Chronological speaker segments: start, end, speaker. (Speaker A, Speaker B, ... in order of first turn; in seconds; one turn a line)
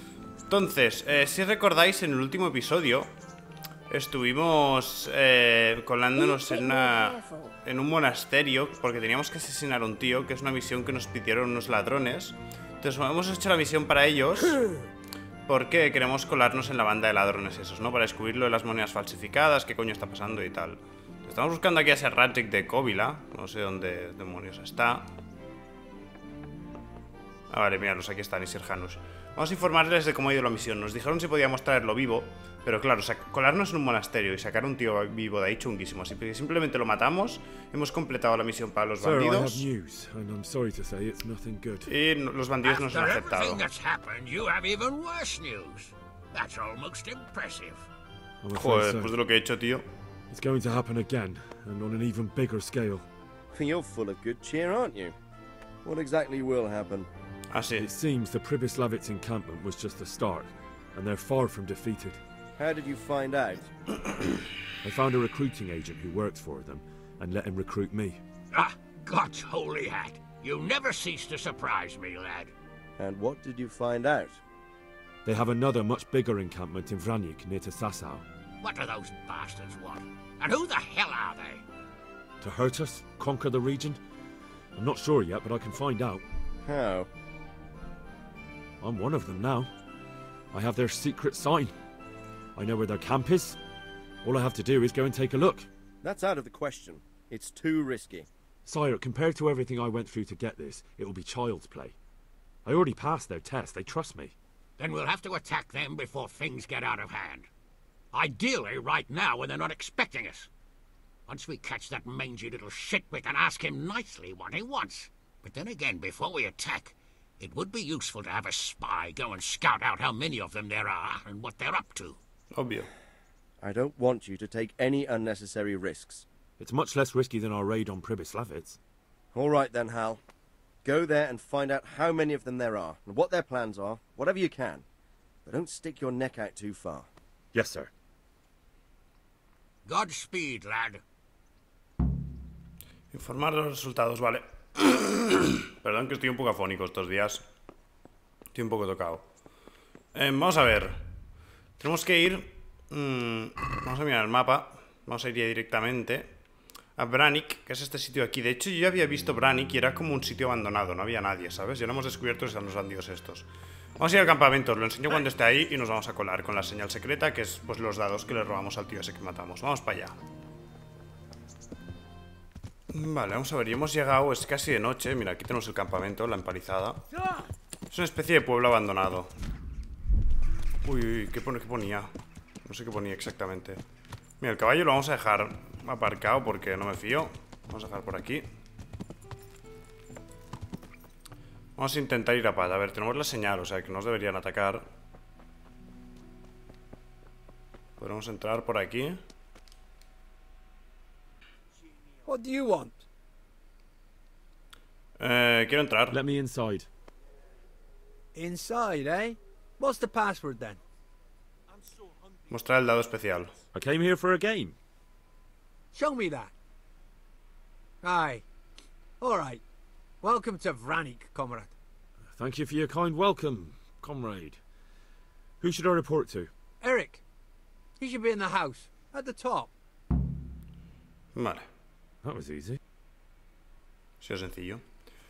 Speaker A: 0.5-3.1
Speaker A: 3.9-14.7
Speaker A: 15.5-25.1
Speaker A: 27.5-39.6
Speaker B: 39.0-41.9
Speaker A: 41.9-43.6
Speaker C: 42.6-47.9
Speaker B: 48.4-49.1
Speaker A: 48.5-49.9
Speaker B: 50.3-53.0
Speaker D: 53.5-55.1
Speaker D: 55.8-57.1
Speaker A: 57.5-57.9
Speaker B: 57.8-62.2
Speaker D: 62.6-63.7
Speaker B: 64.8-68.2
Speaker C: 68.5-72.5
Speaker D: 73.0-74.4
Speaker B: 75.2-78.2
Speaker C: 78.6-81.6
Speaker B: 82.4-84.0
Speaker B: 84.7-86.2
Speaker D: 86.6-87.1
Speaker B: 88.8-89.7
Speaker B: 90.5-91.7
Speaker B: 92.5-93.6
Speaker B: 94.2-95.7
Speaker D: 96.0-98.3
Speaker B: 98.7-101.9
Speaker B: 102.6-104.3
Speaker C: 104.8-107.5
Speaker C: 108.1-110.5
Speaker C: 111.3-122.2
Speaker A: 122.5-122.9
Speaker D: 123.6-126.2
Speaker B: 126.6-128.8
Speaker D: 129.3-130.2
Speaker D: 130.8-134.8
Speaker D: 135.4-137.1
Speaker B: 137.5-137.9
Speaker C: 139.8-141.0
Speaker A: 143.1-147.4
Speaker A: 148.5-149.2
Speaker A: 150.1-151.0
Speaker A: 151.8-156.3
Speaker A: 156.9-170.2
Speaker A: 172.9-177.0
Speaker A: 177.9-179.3
Speaker A: 180.8-182.1
Speaker A: 182.6-183.8
Speaker A: 184.4-188.4
Speaker A: 191.8-194.9
Speaker A: 198.0-199.2
Speaker E: 202.2-203.0
Speaker A: 205.2-206.2
Speaker B: 206.1-206.9
Speaker E: 208.3-210.8
Speaker A: 212.5-213.5
Speaker B: 213.7-214.7
Speaker E: 215.9-216.5
Speaker E: 218.0-218.4
Speaker E: 219.2-219.6
Speaker E: 220.2-221.7
Speaker B: 222.3-224.6
Speaker B: 225.6-226.5
Speaker E: 226.8-227.2
Speaker E: 228.0-229.7
Speaker A: 231.3-231.7
Speaker B: 232.2-232.8
Speaker A: 234.2-234.8